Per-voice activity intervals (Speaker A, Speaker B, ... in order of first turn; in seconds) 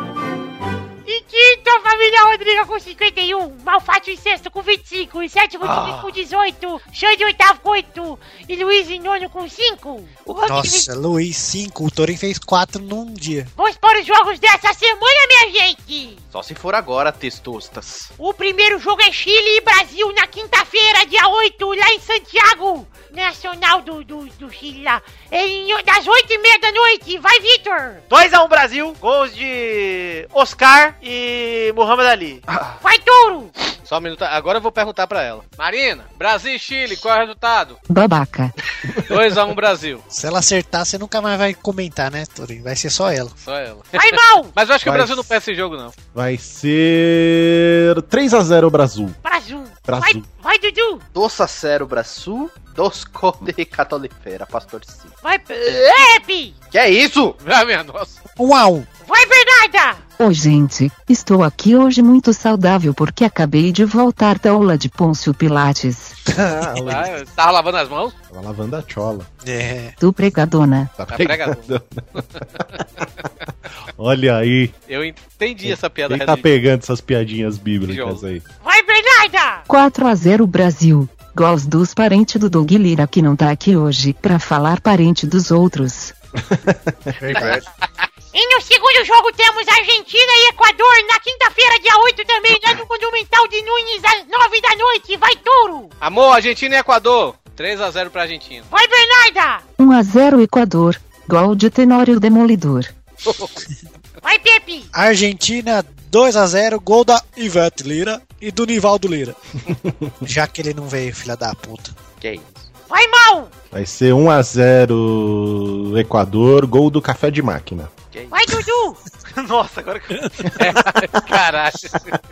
Speaker A: 1.1-10.9, 13.6-16.2, 18.2-28.0, 32.8-33.5, 43.9-44.5, 49.2-51.0, 55.2-56.5, 59.0-60.0, 78.6-79.7, 88.3-95.9, 98.7-99.6, 104.2-104.9, 112.9-113.5, 118.3-119.0
Speaker B: 5.6-6.1, 16.3-18.1, 32.5-32.8, 51.1-55.1, 56.7-57.4, 87.3-87.6, 112.2-112.7, 118.1-118.4
Speaker C: 10.5-13.5, 40.1-43.3, 58.4-58.9, 69.4-70.0, 87.2-87.6, 104.9-109.4, 110.2-111.9
Speaker D: 28.1-32.4, 119.3-120.5
Speaker E: 33.9-37.8, 39.0-40.0, 43.4-45.9, 57.4-58.2, 66.8-68.2, 71.1-72.4, 74.9-76.5, 77.9-78.2, 96.0-98.7, 120.6-122.1
Speaker F: 37.9-38.5, 60.2-66.2, 70.0-70.9, 79.7-86.2, 99.8-102.9
Speaker G: 44.8-45.3, 46.1-49.2, 49.9-50.3, 66.3-67.2, 68.3-69.3, 71.0-72.6, 74.0-74.8, 75.6-78.4, 86.4-87.5, 113.7-117.9